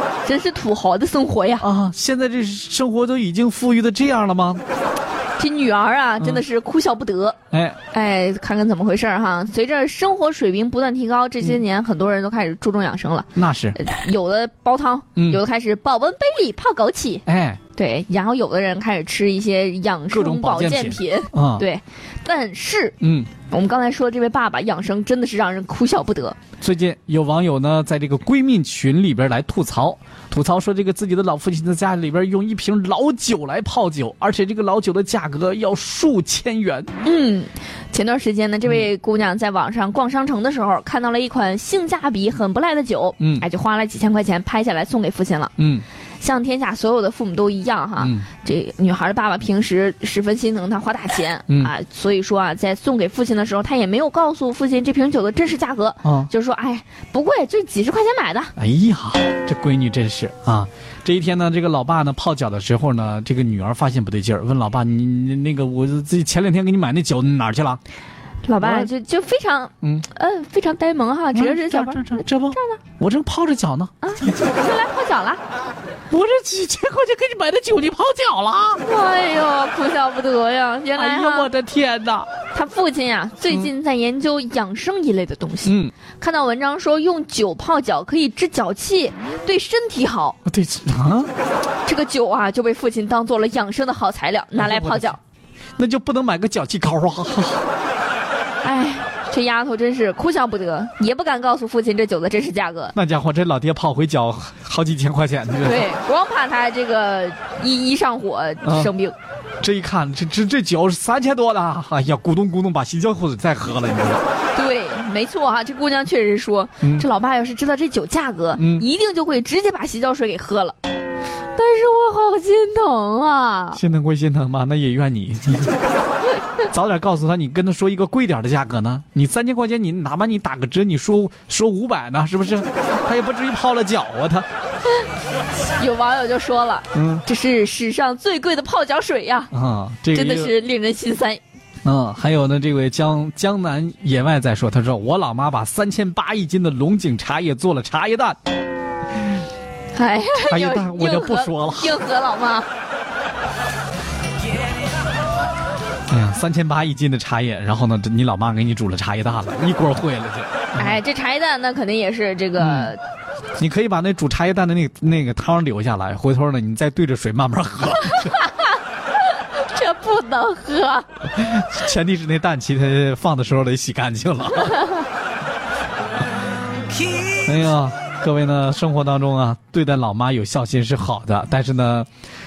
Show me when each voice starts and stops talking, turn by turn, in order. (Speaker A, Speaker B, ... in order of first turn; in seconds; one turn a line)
Speaker A: 0.2-1.7
Speaker B: 1.6-4.6
Speaker A: 5.4-7.4
Speaker B: 7.5-7.8
Speaker A: 7.9-17.2
Speaker B: 13.3-13.8
Speaker B: 17.2-17.6
Speaker A: 17.8-23.0
Speaker B: 20.1-21.7
Speaker B: 23.0-23.3
Speaker A: 23.5-26.4
Speaker B: 26.6-36.9
Speaker A: 37.0-45.5
Speaker B: 43.2-43.4
Speaker B: 45.6-45.8
Speaker A: 46.2-58.5
Speaker B: 48.0-48.3
Speaker B: 56.0-56.3
Speaker B: 58.5-67.8
Speaker A: 68.4-72.8
Speaker B: 68.6-68.9
Speaker B: 69.8-70.1
Speaker B: 71.3-74.3
Speaker A: 74.0-75.4
Speaker B: 76.1-78.8
Speaker A: 78.8-81.5
Speaker B: 80.9-82.3
Speaker A: 82.5-90.4
Speaker B: 85.6-85.9
Speaker B: 90.4-91.3
Speaker A: 91.8-95.2
Speaker B: 94.6-95.1
Speaker B: 95.8-97.6
Speaker A: 98.6-102.9
Speaker B: 102.9-105.9
Speaker A: 105.6-109.2
Speaker B: 108.6-108.9
Speaker B: 109.6-114.2
Speaker A: 114.5-120.8
Speaker B: 116.8-117.1
Speaker B: 118.5-118.8
Speaker A: 121.5-123.8
Speaker B: 123.7-125.8
Speaker B: 126.6-134.5
Speaker A: 135.8-139.5
Speaker B: 136.9-137.2
Speaker B: 139.5-140.5
Speaker A: 140.1-141.4
Speaker B: 141.8-148.4
Speaker A: 149.9-152.7
Speaker B: 150.3-152.0
Speaker B: 156.1-161.0
Speaker A: 160.8-163.0
Speaker B: 162.6-162.9
Speaker B: 163.6-168.4
Speaker A: 168.3-168.7
Speaker A: 169.3-171.1
Speaker B: 171.3-174.9
Speaker B: 177.4-182.1